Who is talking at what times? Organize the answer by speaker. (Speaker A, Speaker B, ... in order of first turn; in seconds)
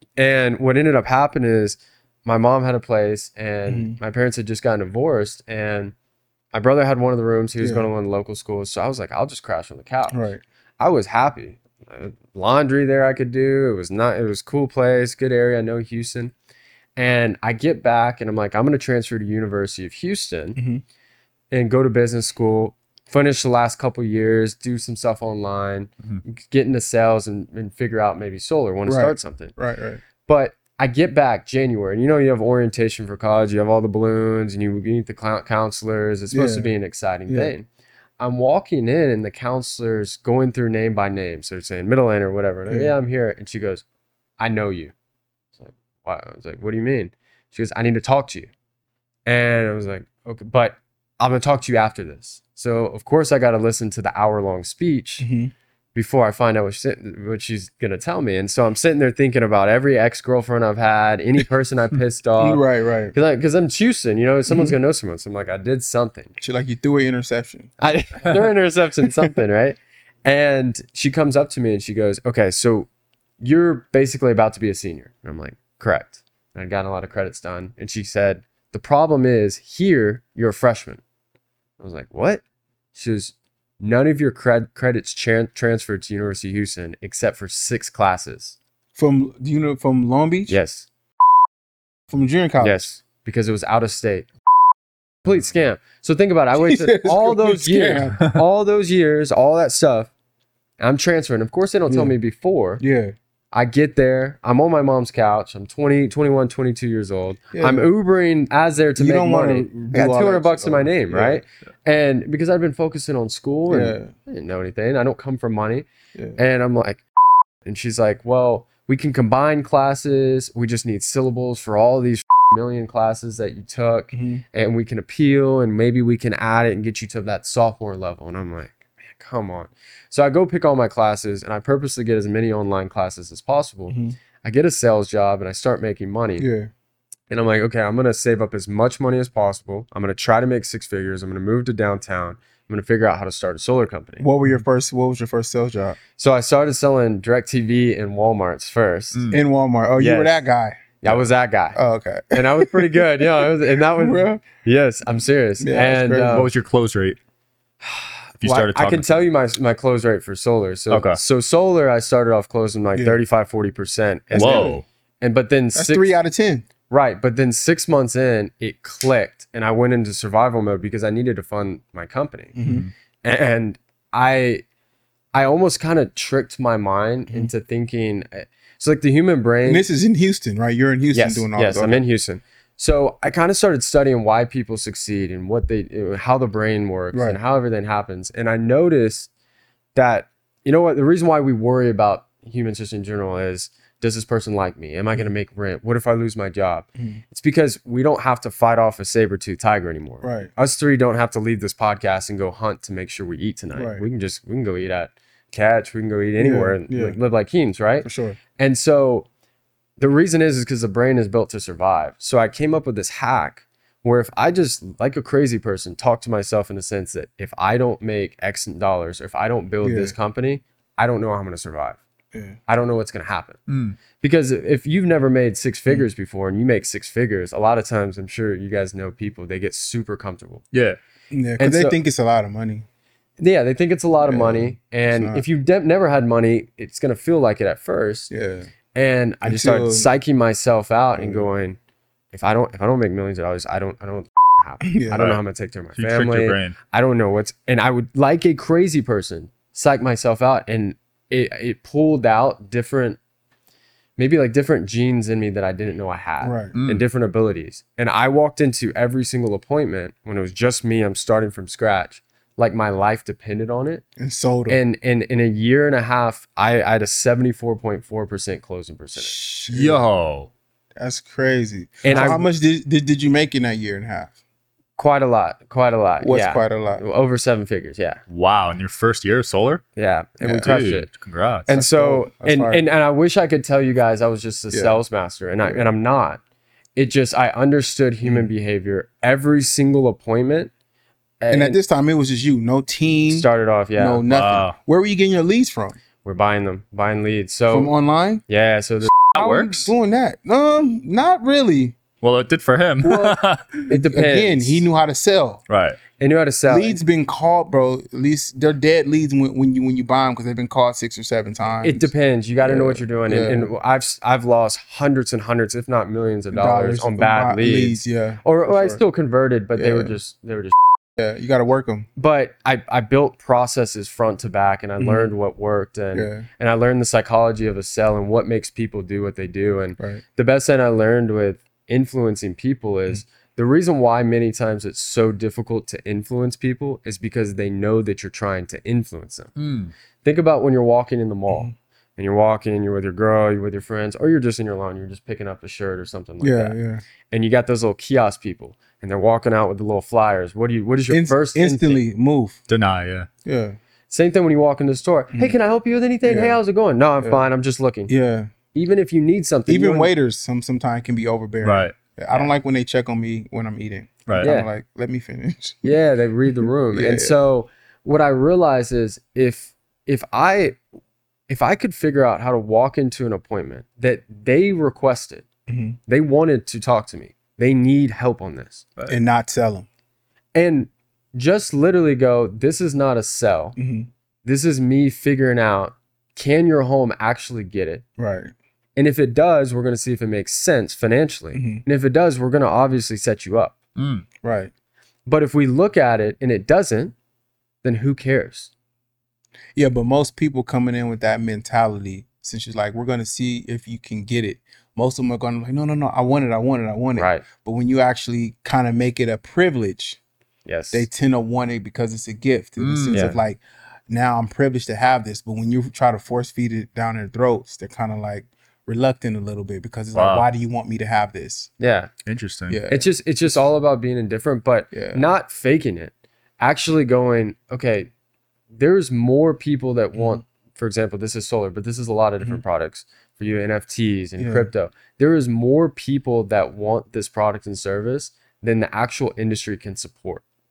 Speaker A: 0.2-5.9, 6.5-10.2, 10.8-16.3, 16.9-20.6, 21.5-29.5, 30.2-37.7, 38.2-43.8, 44.4-44.9, 45.6-48.5, 49.2-55.3, 55.9-66.3, 67.8-72.9, 73.4-81.0, 81.8-82.4, 82.9-88.6, 90.5-90.9, 92.6-94.3, 95.2-100.1, 100.8-102.8, 103.5-115.8, 116.4-117.0, 117.6-136.4, 137.3-144.2, 146.2-149.2, 150.0-150.4, 151.0-151.8, 152.3-156.5, 157.8-166.1, 166.9-172.5, 173.2-174.6, 175.3-179.8, 181.1-189.3, 189.9-208.1, 208.6-209.3, 210.0-222.0, 222.7-223.6, 224.2-230.6, 231.6-232.0, 233.4-238.3, 238.9-241.8, 242.3-253.2, 254.2-264.0, 264.7-269.3, 272.0-272.4, 275.0-278.2, 279.9-281.1, 281.7-286.4, 286.9-290.7, 291.4-291.8, 293.3-294.2, 296.2-297.9, 298.5-299.1, 303.9-304.9, 306.2-307.0, 311.8-320.8, 322.1-339.5, 340.2-346.8, 347.3-352.0, 354.1-358.1, 358.7-360.1, 364.4-364.7, 365.8-370.8, 371.5-375.4, 376.1-378.8, 380.5-383.8, 384.4-388.0, 388.9-393.8, 395.2-397.1, 397.8-398.7, 407.1-407.4, 410.6-411.1, 413.1-413.4, 421.8-422.1, 422.9-428.1, 428.7-440.4
Speaker B: 3.7-4.0, 7.6-7.8, 10.1-10.4, 20.6-20.8, 28.9-30.0, 36.3-36.7, 37.3-37.5, 42.7-42.9, 55.2-55.5, 62.4-63.1, 64.5-64.8, 66.4-67.7, 89.0-90.5, 92.1-92.9, 96.5-98.3, 101.9-102.2, 102.8-103.1, 107.5-107.9, 109.0-111.4, 113.7-114.1, 124.1-124.4, 133.9-134.2, 136.4-136.7, 144.2-146.0, 149.3-151.0, 151.7-154.4, 155.6-156.5, 164.3-164.8, 165.7-166.7, 172.6-172.9, 179.6-182.0, 187.1-187.4, 197.0-197.2, 200.2-200.5, 203.7-204.0, 206.4-207.2, 208.0-208.4, 219.8-220.1, 222.3-222.6, 231.3-232.8, 234.2-235.4, 238.3-238.7, 239.4-240.1, 241.2-241.5, 244.8-245.3, 256.4-256.7, 264.2-264.8, 269.1-270.0, 271.0-274.3, 276.2-277.0, 280.4-280.8, 281.7-282.8, 284.7-285.0, 291.5-296.0, 297.7-298.4, 299.2-302.0, 303.0-305.6, 306.7-312.1, 312.6-313.7, 316.5-319.0, 319.8-320.1, 321.2-322.1, 325.0-325.3, 326.1-326.5, 330.0-330.2, 346.4-347.0, 351.1-352.6, 353.4-353.8, 356.2-356.6, 357.2-357.4, 358.1-358.5, 359.7-367.3, 375.7-376.0, 379.1-379.9, 383.8-384.1, 388.2-388.5, 391.5-391.8, 394.4-394.7, 399.7-410.2, 410.9-421.7, 422.7-423.1, 424.9-425.2, 434.4-434.7
Speaker C: 149.1-149.4, 156.3-157.2, 158.4-159.2, 160.9-161.2, 164.3-164.8, 172.6-172.9, 223.7-224.0, 230.7-231.0, 245.2-245.4, 245.9-246.8, 256.7-257.0, 269.7-270.5, 278.3-279.8, 280.6-281.7, 294.3-294.8, 299.2-299.9, 302.2-303.8, 305.7-306.0, 339.6-339.9, 352.7-353.3, 361.6-361.9, 364.2-364.5, 393.9-394.2, 412.8-413.3, 420.1-420.5, 422.2-422.8